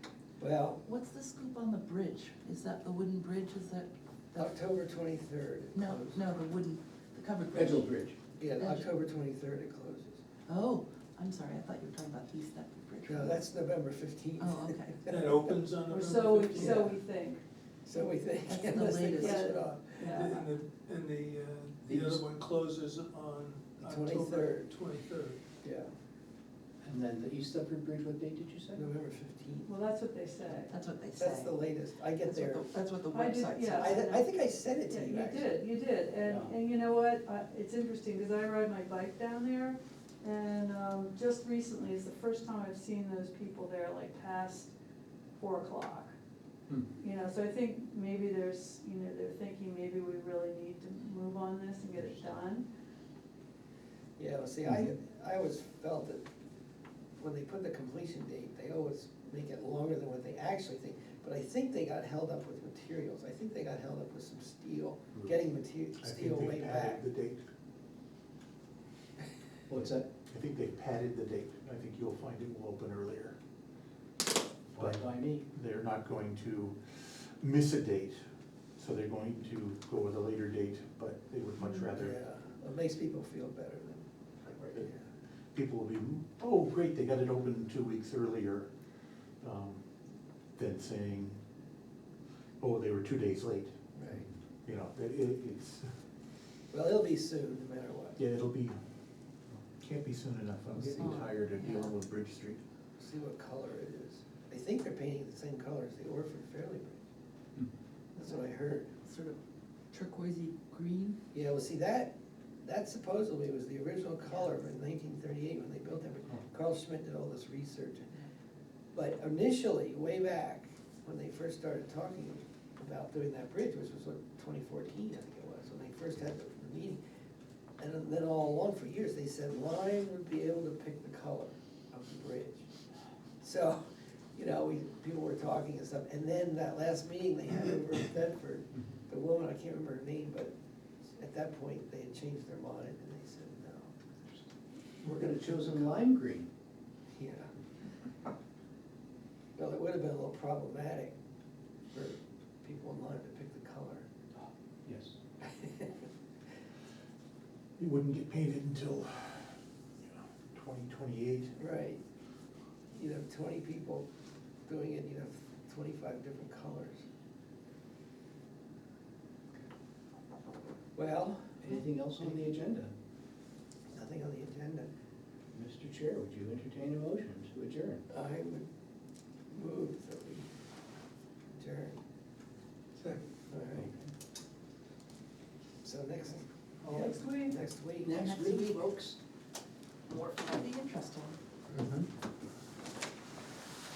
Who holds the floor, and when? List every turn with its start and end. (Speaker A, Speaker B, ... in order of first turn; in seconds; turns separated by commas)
Speaker A: 0.4-0.8, Speaker B: 0.8-4.5, Speaker A: 4.3-6.2, Speaker B: 5.8-7.9, Speaker C: 7.5-8.2, Speaker A: 8.3-10.2, Speaker B: 8.6-8.9, Speaker B: 10.5-13.4, Speaker A: 13.0-15.5, Speaker B: 14.4-15.0, Speaker D: 15.1-17.0, Speaker E: 15.9-17.4, Speaker A: 16.5-16.9, Speaker A: 17.9-20.4, Speaker B: 18.4-19.6, Speaker E: 19.2-20.4, Speaker D: 20.0-25.4, Speaker C: 21.9-22.2, Speaker A: 23.8-24.7, Speaker A: 25.6-25.9, Speaker C: 26.8-28.9, Speaker A: 28.7-29.7, Speaker E: 29.6-30.8, Speaker B: 30.7-31.6, Speaker A: 31.2-32.7, Speaker B: 32.2-34.0, Speaker E: 33.1-44.7, Speaker A: 33.8-35.5, Speaker C: 36.2-36.5, Speaker E: 45.4-46.1, Speaker E: 47.0-52.7, Speaker A: 54.2-56.2, Speaker A: 57.2-67.0, Speaker F: 66.0-67.5, Speaker C: 69.7-70.1, Speaker F: 70.2-73.4, Speaker C: 74.8-75.5, Speaker F: 74.8-78.2, Speaker F: 78.8-82.2, Speaker A: 81.8-85.0, Speaker F: 85.5-88.7, Speaker F: 89.4-89.8, Speaker F: 90.6-91.4, Speaker F: 92.6-93.8, Speaker A: 94.0-94.3, Speaker F: 94.6-95.9, Speaker A: 96.7-98.2, Speaker F: 98.2-98.8, Speaker F: 99.7-102.6, Speaker C: 100.7-101.1, Speaker B: 101.0-101.9, Speaker A: 103.0-107.0, Speaker A: 108.2-108.9, Speaker B: 108.2-109.4, Speaker B: 109.9-111.2, Speaker A: 111.3-118.1, Speaker A: 118.9-127.0, Speaker A: 127.8-132.7, Speaker A: 133.4-133.8, Speaker A: 134.3-143.9, Speaker A: 145.0-146.0, Speaker C: 145.1-146.5, Speaker A: 147.1-147.5, Speaker A: 149.6-151.2, Speaker A: 151.9-154.1, Speaker C: 154.9-155.2, Speaker A: 155.4-156.0, Speaker F: 157.8-161.6, Speaker A: 161.6-162.0, Speaker A: 162.9-164.1, Speaker A: 164.7-167.1, Speaker A: 171.0-171.7, Speaker C: 171.6-172.9, Speaker A: 173.9-174.9, Speaker C: 175.5-178.0, Speaker A: 178.1-178.7, Speaker A: 179.5-180.5, Speaker A: 181.6-182.0, Speaker A: 183.0-183.9, Speaker A: 185.8-188.3, Speaker D: 186.8-187.4, Speaker E: 186.9-187.6, Speaker C: 188.0-189.2, Speaker B: 188.1-188.8, Speaker B: 190.1-191.4, Speaker C: 191.7-192.1